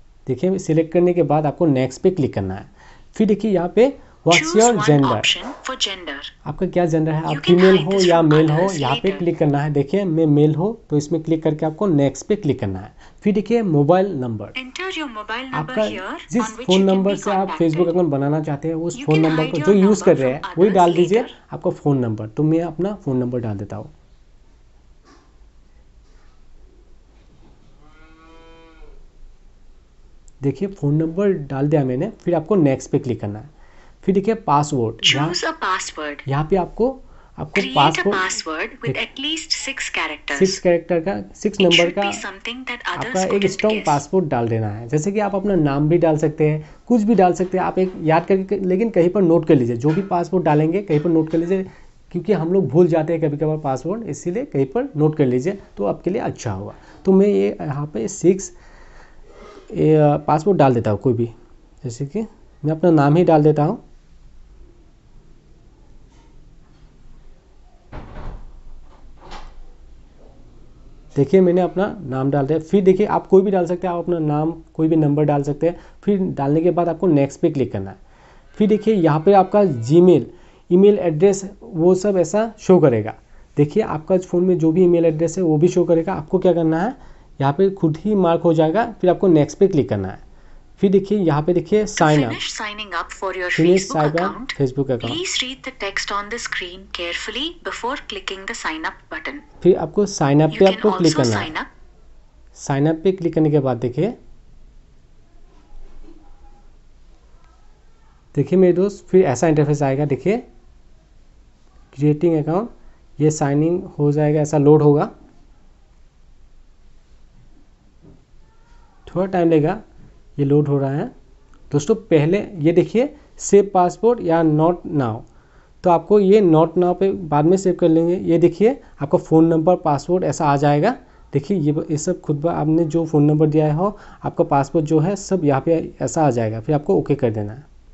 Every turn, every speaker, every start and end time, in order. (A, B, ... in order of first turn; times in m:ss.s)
0:00.3-0:05.3 A
0:04.3-0:06.3 B
0:06.4-0:14.6 A
0:07.3-0:09.3 B
0:14.6-0:18.0 B
0:15.5-0:23.9 A
0:18.9-0:21.3 B
0:30.4-0:33.5 A
0:34.0-0:35.4 A
0:35.0-0:36.3 B
0:36.3-0:38.3 A
0:37.6-0:40.6 B
0:40.3-0:42.2 A
0:41.6-0:44.0 B
0:43.0-0:58.6 A
0:59.7-1:03.8 A
1:11.2-1:18.0 A
1:18.6-1:30.2 A
1:30.8-1:32.4 A
1:32.0-1:39.4 B
1:33.5-1:35.2 A
1:39.6-1:41.5 A
1:40.5-1:41.7 B
1:42.6-1:44.2 A
1:48.3-1:50.4 A
1:51.9-1:55.1 A
1:59.1-1:59.8 A
2:00.4-2:01.1 A
2:01.7-2:05.2 A
2:05.8-2:17.6 A